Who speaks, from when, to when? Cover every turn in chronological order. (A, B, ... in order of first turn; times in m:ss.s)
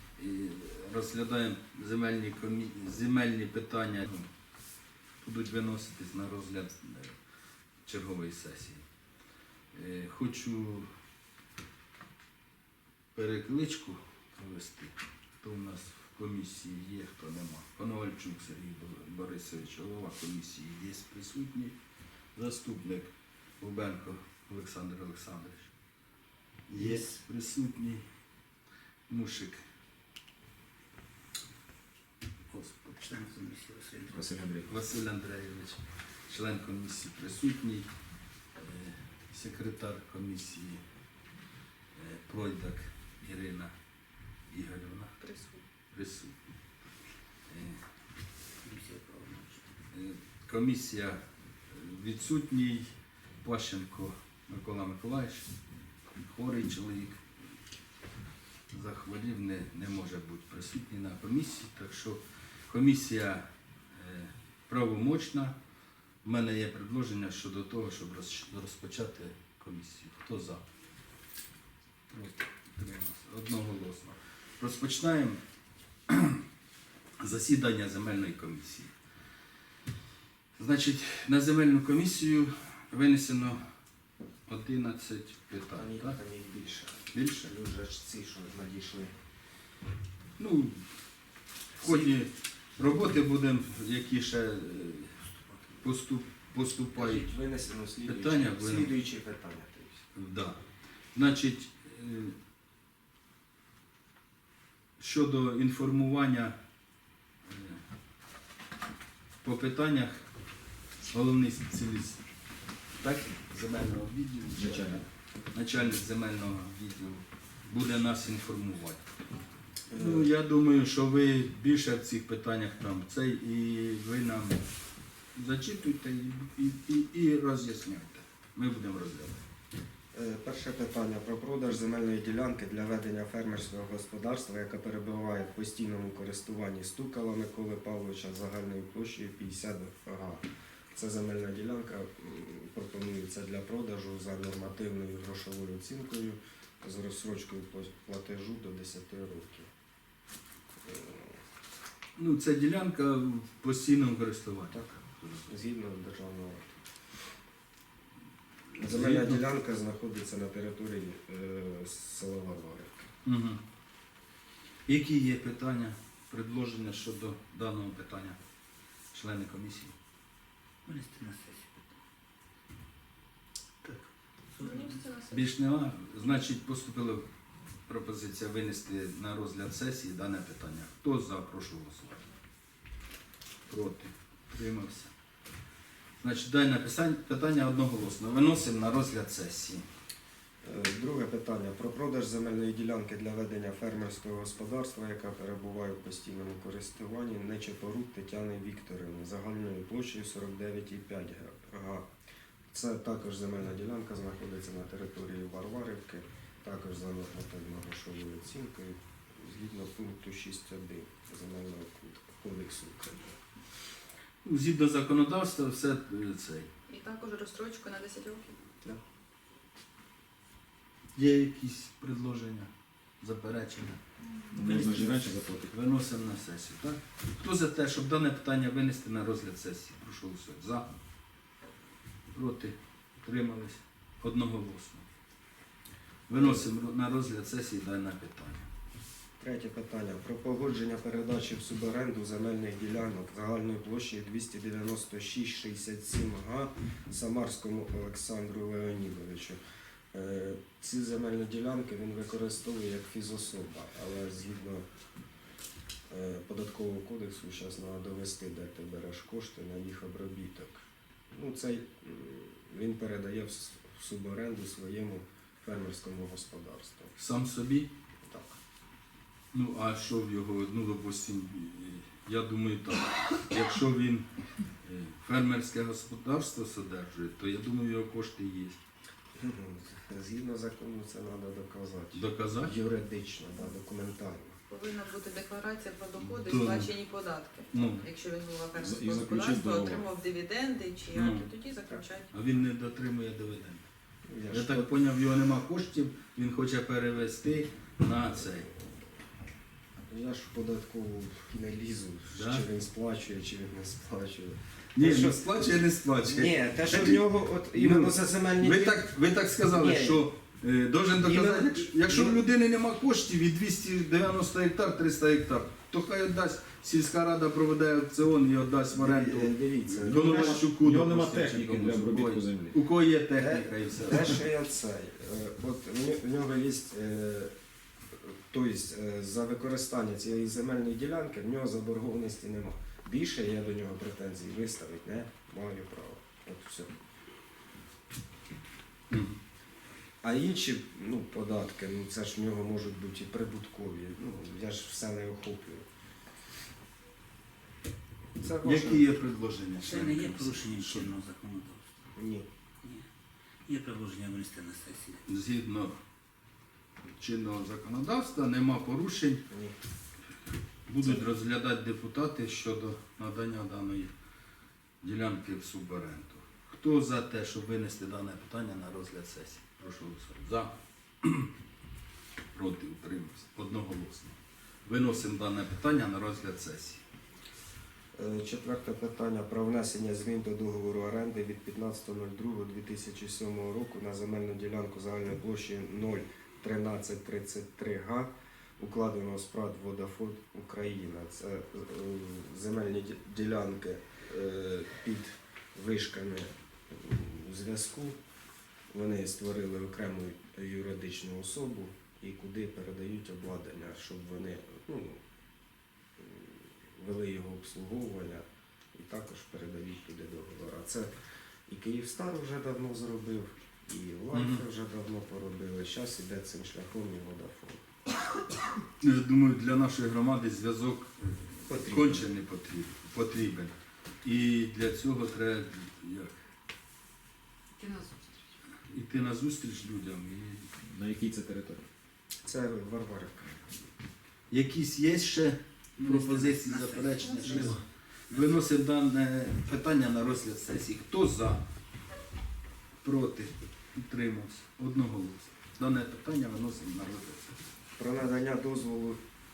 0:00.2-0:04.3 A
0:05.2-0:07.2 A
0:07.9-0:08.8 A
0:09.7-0:10.9 A
0:13.2-0:21.8 A
0:22.4-0:25.7 A
0:26.7-0:28.0 A
0:26.8-0:27.2 B
0:29.1-0:29.6 A
0:32.5-0:33.4 A
0:33.1-0:34.6 B
0:34.1-0:34.8 C
0:34.7-0:37.9 A
0:38.6-0:40.8 A
0:42.0-0:43.7 A
0:44.5-0:45.2 A
0:45.2-0:45.6 D
0:45.9-0:46.4 A
0:47.5-0:47.8 A
0:48.6-0:49.6 B
0:49.9-0:51.2 A
0:51.7-0:52.9 A
0:53.4-0:55.4 A
0:56.2-0:57.2 A
0:58.7-1:05.6 A
1:06.2-1:10.6 A
1:12.1-1:15.4 A
1:16.1-1:16.4 A
1:17.2-1:18.9 A
1:20.6-1:23.6 A
1:24.5-1:26.2 A
1:25.7-1:29.1 E
1:27.1-1:27.5 A
1:30.4-1:30.8 A
1:31.8-1:35.2 A
1:35.8-1:37.3 A
1:37.0-1:40.0 E
1:38.1-1:38.9 A
1:40.2-1:40.6 A
1:41.1-1:42.4 A
1:45.0-1:46.6 A
1:47.5-1:47.8 A
1:49.4-1:50.2 A
1:51.1-1:52.2 A
1:53.0-1:59.0 A
1:54.5-1:55.0 C
1:59.9-2:00.3 E
1:59.9-2:04.6 A
2:05.4-2:09.4 A
2:10.1-2:20.4 E
2:20.9-2:29.7 E
2:30.8-2:31.4 E
2:32.2-2:35.5 A
2:34.7-2:36.8 E
2:38.7-2:39.4 A
2:38.8-2:43.1 E
2:43.2-2:43.6 A
2:44.9-2:48.4 A
2:49.1-2:50.0 A
2:50.9-2:51.9 B
2:54.6-2:54.9 B
2:54.6-2:55.5 D
2:55.3-2:57.3 A
2:57.9-3:02.3 A
3:03.7-3:05.1 A
3:06.2-3:09.9 A
3:10.6-3:22.1 E
3:22.7-3:33.2 E
3:34.4-3:36.7 A
3:36.9-3:38.5 D
3:41.2-3:42.7 A
3:43.2-3:44.0 A
3:44.5-3:45.7 C
3:44.6-3:50.9 A
3:44.6-3:45.2 B
3:52.3-3:55.1 A
3:56.3-3:58.7 A
3:56.3-3:56.7 E
3:59.4-4:09.6 E
4:10.1-4:14.8 E
4:16.1-4:27.1 E
4:27.2-4:27.9 A
4:28.3-4:28.6 E
4:29.5-4:34.3 A
4:34.8-4:38.8 A
4:39.4-4:44.6 E
4:42.1-4:42.7 A
4:44.7-4:52.3 D
4:46.2-4:46.9 A
4:47.7-4:48.1 A
4:48.8-4:50.1 C
4:51.1-4:51.5 A
4:52.3-4:53.9 A
4:54.3-4:55.0 E
4:54.5-4:58.7 A
5:00.1-5:09.1 E
5:02.3-5:02.7 A
5:05.0-5:24.4 A
5:09.6-5:10.3 E
5:11.2-5:12.4 E
5:18.9-5:20.7 E
5:20.0-5:22.8 C
5:23.4-5:27.5 E
5:28.2-5:36.9 E
5:39.1-5:39.4 A
5:40.2-5:45.9 E
5:48.4-5:49.1 E
5:48.6-5:51.1 A
5:49.8-5:52.0 B
5:52.2-5:52.5 E
5:52.8-5:53.1 B
5:53.7-5:55.2 B
5:55.3-5:56.0 A
5:57.2-5:59.4 A
5:59.5-5:59.8 E
6:00.9-6:04.1 A
6:05.0-6:11.5 A
6:12.5-6:17.0 A
6:18.1-6:38.2 E
6:38.9-6:45.2 E
6:46.2-6:51.1 E
6:51.7-6:57.8 E
6:54.3-6:54.6 A
6:59.0-7:06.4 A
7:01.7-7:02.3 E
7:07.8-7:08.4 D
7:08.9-7:10.7 A
7:10.8-7:11.9 C
7:12.4-7:13.7 E
7:14.5-7:21.6 A
7:16.0-7:18.5 B
7:23.0-7:27.6 A
7:28.0-7:29.2 E